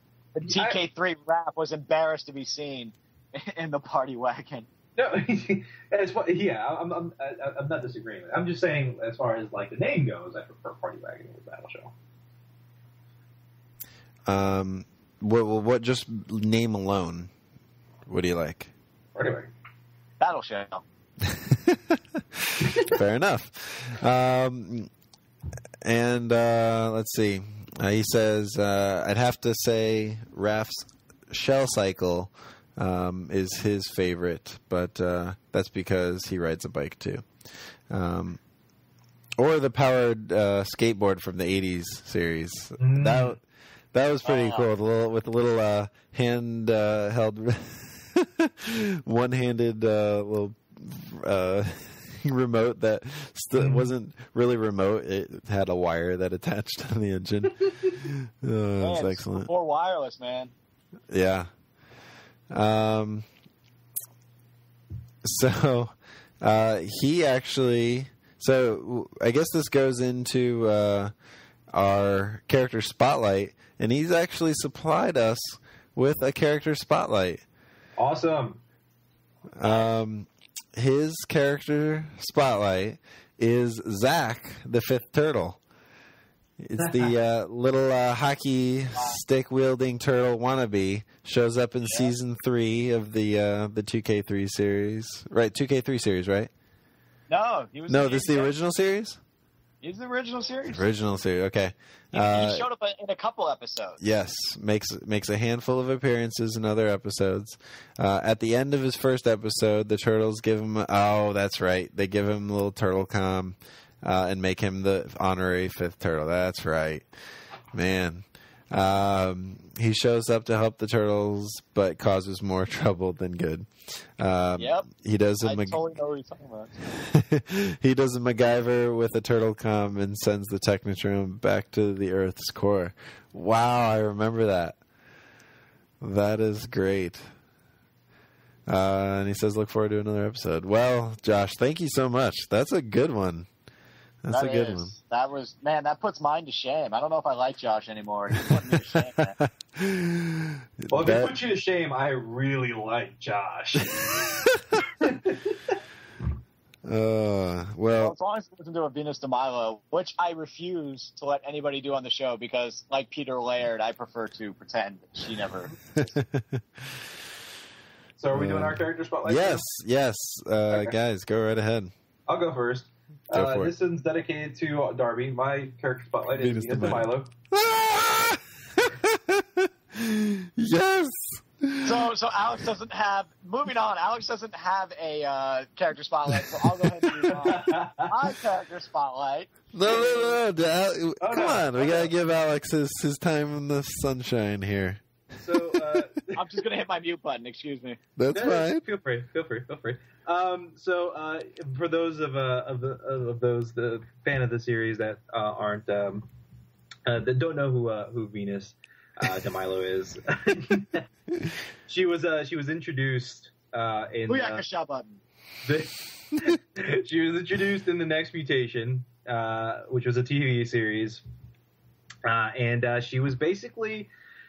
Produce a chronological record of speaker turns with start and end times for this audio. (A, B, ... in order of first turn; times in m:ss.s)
0:00.4-0:04.7 A
0:00.5-0:00.8 B
0:05.0-0:11.9 B
0:14.3-0:17.3 C
0:18.1-0:18.7 C
0:19.2-0:19.5 B
0:20.2-0:20.8 A
0:21.2-0:24.9 C
0:25.8-0:37.3 C
0:37.9-0:38.4 C
0:39.4-0:43.4 C
0:42.8-0:43.4 B
0:43.9-0:59.5 C
0:44.2-0:44.7 A
0:53.6-0:53.9 B
0:58.8-1:00.5 A
1:01.1-1:01.5 C
1:02.5-1:03.3 C
1:05.2-1:11.1 C
1:11.7-1:17.4 C
1:18.0-1:18.6 B
1:19.6-1:25.6 C
1:26.6-1:36.5 C
1:26.8-1:27.1 B
1:37.3-1:38.5 A
1:37.9-1:39.2 C
1:39.8-1:40.9 A
1:40.7-1:42.7 C
1:42.1-1:44.0 A
1:44.0-1:57.1 C
1:57.7-2:05.9 C
2:04.6-2:04.9 A
2:05.4-2:06.8 A
2:07.0-2:14.8 C
2:16.0-2:17.3 C
2:18.7-2:23.5 C
2:24.2-2:24.9 C
2:24.3-2:29.4 A
2:28.5-2:31.4 C
2:30.9-2:35.7 B
2:36.8-2:38.2 C
2:38.0-2:45.7 A
2:46.0-2:46.6 C
2:48.2-2:49.7 B
2:48.3-2:51.9 C
2:52.3-2:57.3 B
2:53.3-2:53.7 C
2:56.4-3:02.1 C
3:01.8-3:09.6 A
3:06.6-3:07.3 C
3:07.5-3:08.1 B
3:09.7-3:16.0 C
3:11.2-3:12.1 B
3:15.4-3:16.4 B
3:16.3-3:18.0 A
3:18.2-3:18.8 C
3:18.3-3:26.3 B
3:27.1-3:31.0 B
3:31.9-3:34.6 B
3:34.3-3:35.2 A
3:35.6-3:41.2 B
3:42.2-3:44.1 B